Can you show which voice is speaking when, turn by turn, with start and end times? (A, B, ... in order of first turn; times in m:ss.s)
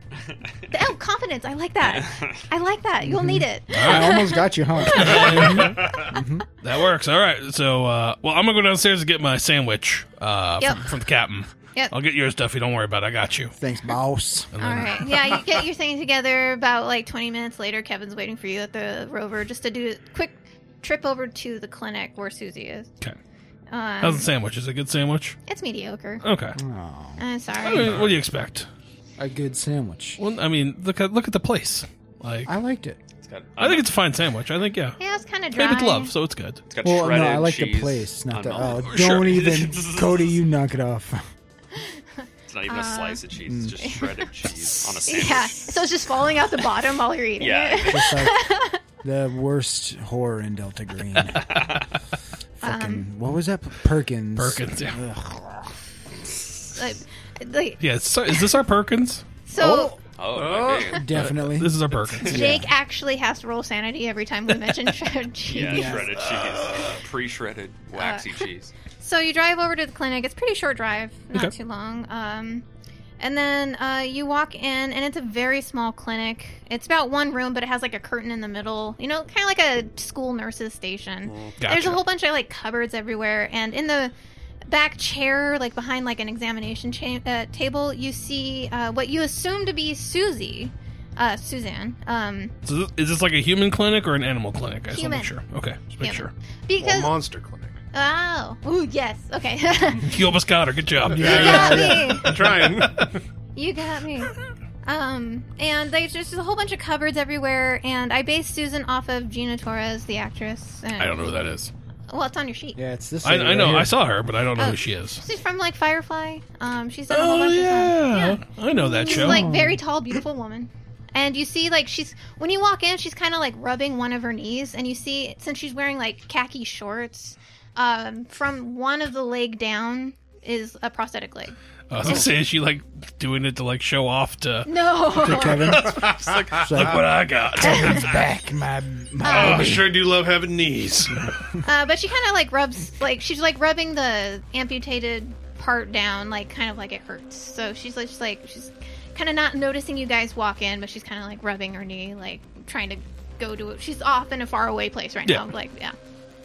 0:00.7-0:05.4 A
0:02.0-0:02.3 B
0:03.0-0:06.5 C
0:03.7-0:04.2 D
0:04.9-0:06.0 D
0:05.8-0:06.0 E
0:06.6-0:13.5 D
0:13.6-0:14.5 C
0:14.5-0:15.5 D
0:14.6-0:22.9 A
0:23.7-0:24.3 A
0:24.0-0:25.4 D
0:25.5-0:26.2 A
0:26.2-0:26.6 D
0:26.6-0:27.2 C
0:27.2-0:28.0 A
0:27.6-0:28.7 D
0:27.8-0:28.2 E
0:29.2-0:30.2 C
0:30.2-0:32.5 D
0:32.5-0:33.0 C
0:33.2-0:33.8 B
0:33.6-0:35.0 D
0:35.0-0:36.1 A
0:35.6-0:36.6 D
0:36.7-0:40.3 B
0:36.8-0:41.2 C
0:38.8-0:39.4 D
0:42.5-0:45.8 B
0:42.7-0:43.2 A
0:43.5-0:43.8 C
0:43.8-0:44.2 A
0:44.8-0:48.8 A
0:47.4-0:48.2 B
0:47.8-0:48.4 C
0:49.0-0:51.7 C
0:51.3-0:51.8 D
0:51.5-0:51.8 B
0:52.6-0:55.7 C
0:52.6-0:53.0 A
0:54.4-0:55.0 D
0:56.7-0:58.6 A
0:57.8-0:59.3 D
0:59.5-1:00.0 A
0:59.6-1:00.0 C
1:00.2-1:01.1 B
1:00.3-1:01.0 E
1:00.8-1:02.7 C
1:01.1-1:02.4 D
1:02.3-1:06.1 A
1:05.5-1:08.7 B
1:05.7-1:06.2 C
1:06.3-1:07.0 D
1:08.0-1:08.4 A
1:09.0-1:12.6 A
1:13.2-1:24.1 A
1:21.3-1:21.6 E
1:21.6-1:22.0 D
1:24.7-1:32.5 A
1:32.7-1:36.3 D
1:34.9-1:35.3 A
1:36.0-1:37.1 A
1:36.8-1:37.8 E
1:37.9-1:40.2 A
1:40.0-1:42.7 D
1:41.1-1:42.6 C
1:41.1-1:43.2 E
1:41.2-1:42.4 A
1:43.6-1:51.4 A
1:51.0-1:51.7 D
1:52.1-1:52.8 A
1:52.8-1:53.9 C
1:53.2-1:55.2 D
1:54.6-2:11.5 A
1:57.1-1:59.4 D
1:59.1-1:59.8 C
2:11.9-2:14.7 D
2:14.6-2:15.8 A
2:15.2-2:20.0 C
2:15.3-2:18.1 D
2:15.8-2:17.0 E
2:17.6-2:18.1 A
2:19.2-2:19.7 A
2:19.2-2:21.3 E
2:21.6-2:36.0 A
2:35.2-2:35.5 D